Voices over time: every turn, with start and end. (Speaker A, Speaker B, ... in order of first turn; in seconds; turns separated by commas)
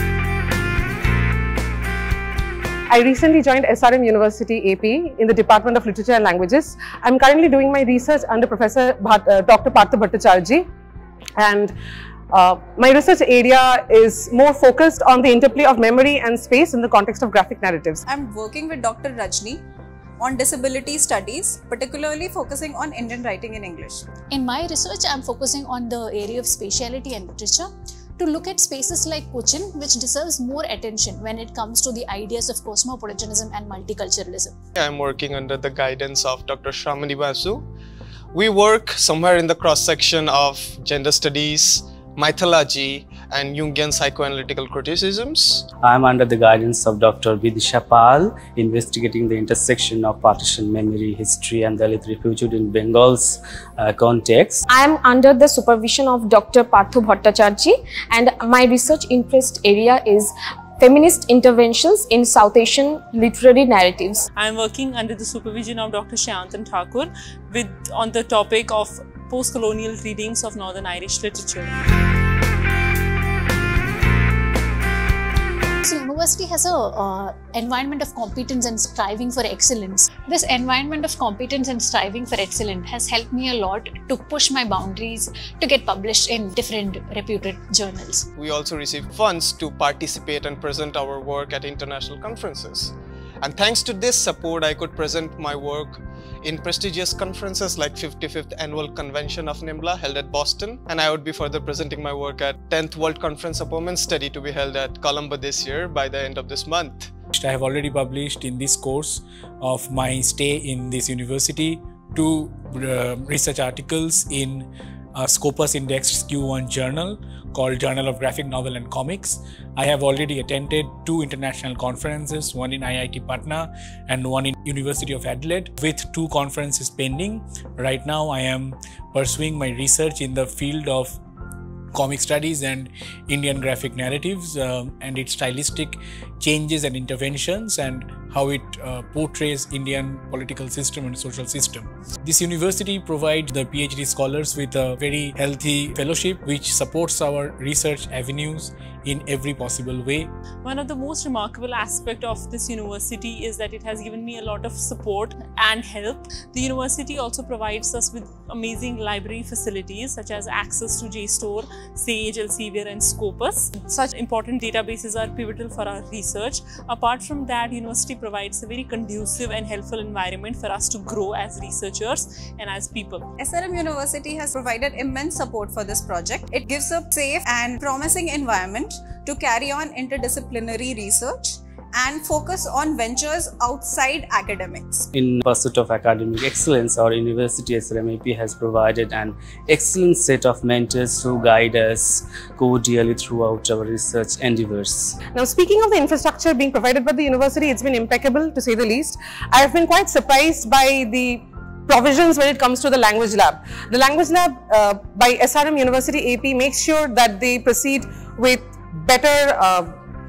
Speaker A: 2.9-10.7, Speaker A: 11.4-11.7, Speaker A: 12.3-18.0, Speaker B: 18.1-19.5, Speaker B: 20.2-24.0, Speaker C: 24.3-34.5, Speaker D: 34.8-37.6, Speaker D: 38.3-45.6, Speaker E: 45.8-54.6, Speaker F: 54.7-64.2, Speaker G: 64.3-71.7, Speaker C: 75.8-88.3, Speaker D: 88.4-107.1, Speaker H: 107.3-131.2, Speaker H: 131.9-150.3, Speaker G: 150.6-173.3, Speaker B: 173.4-185.0, Speaker E: 185.1-195.2, Speaker A: 195.3-209.9